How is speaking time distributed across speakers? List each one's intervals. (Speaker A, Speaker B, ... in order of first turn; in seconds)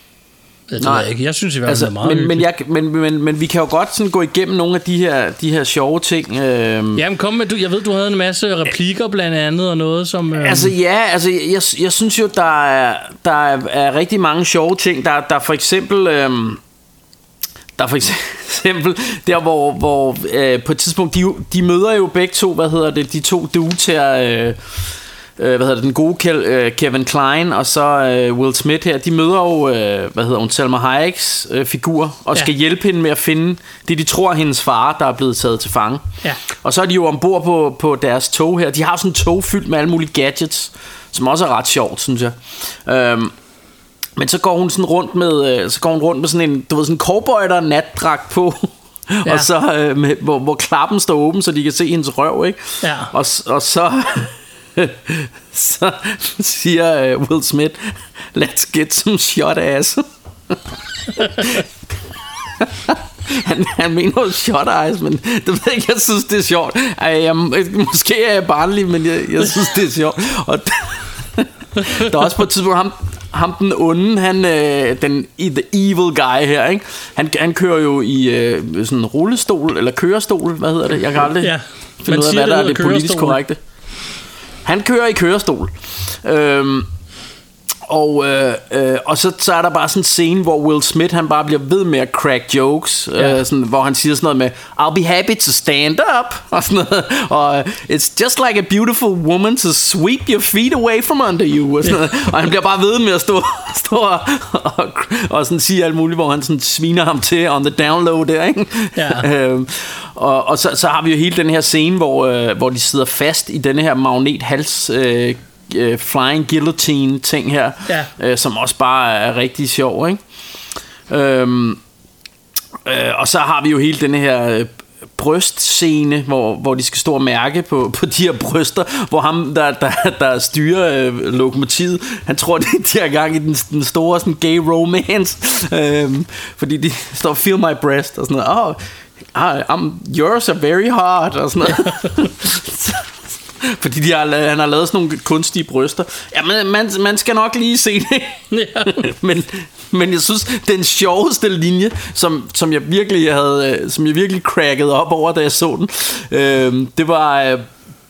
Speaker A: 0.7-2.5, 7.0-10.7, 52.8-53.1, 61.2-61.5, 81.4-83.4, 101.8-102.1, 109.0-109.3, 141.8-142.2, 148.5-149.0
Speaker B: 0.8-1.1, 1.7-7.0, 10.3-16.6, 17.8-24.8, 25.4-43.3, 44.2-60.6, 61.2-61.6, 62.6-83.6, 84.6-86.9, 87.9-120.2, 121.1-121.8, 122.8-138.8, 139.3-143.1, 143.6-157.7